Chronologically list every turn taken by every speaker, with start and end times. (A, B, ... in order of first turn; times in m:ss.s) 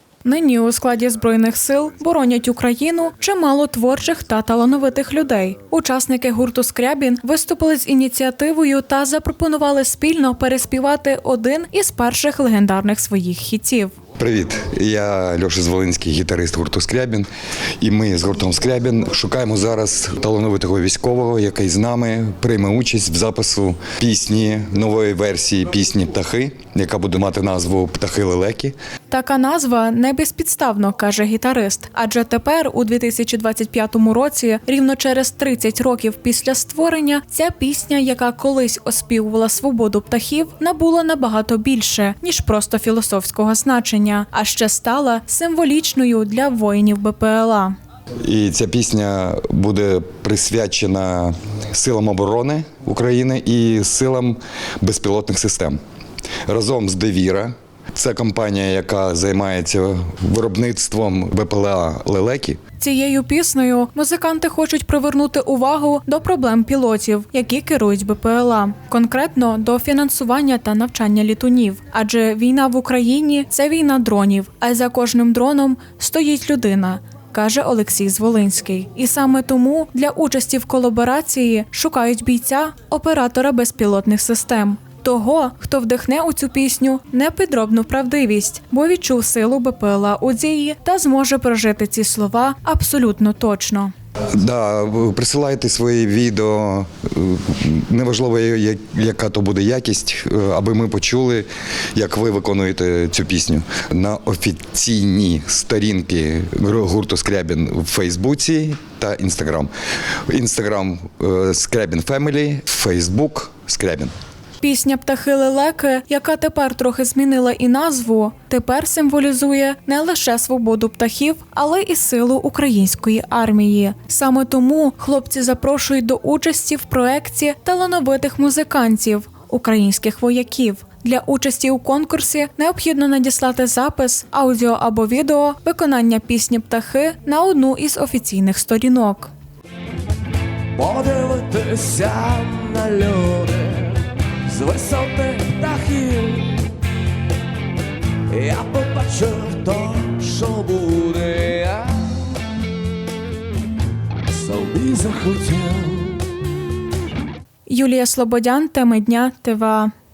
0:00.2-0:13.9 A
0:14.2-0:17.3 B
0:17.8-0:28.7 B
0:29.1-0:47.7 A
0:48.2-0:55.8 B
0:56.5-1:02.6 B
1:02.8-1:33.9 A
1:34.4-1:49.7 B
1:50.3-1:54.1 B
1:54.6-2:19.3 A
2:20.8-2:26.6 C
2:28.3-2:32.0 C
2:34.3-2:36.2 C
2:37.7-2:39.9 A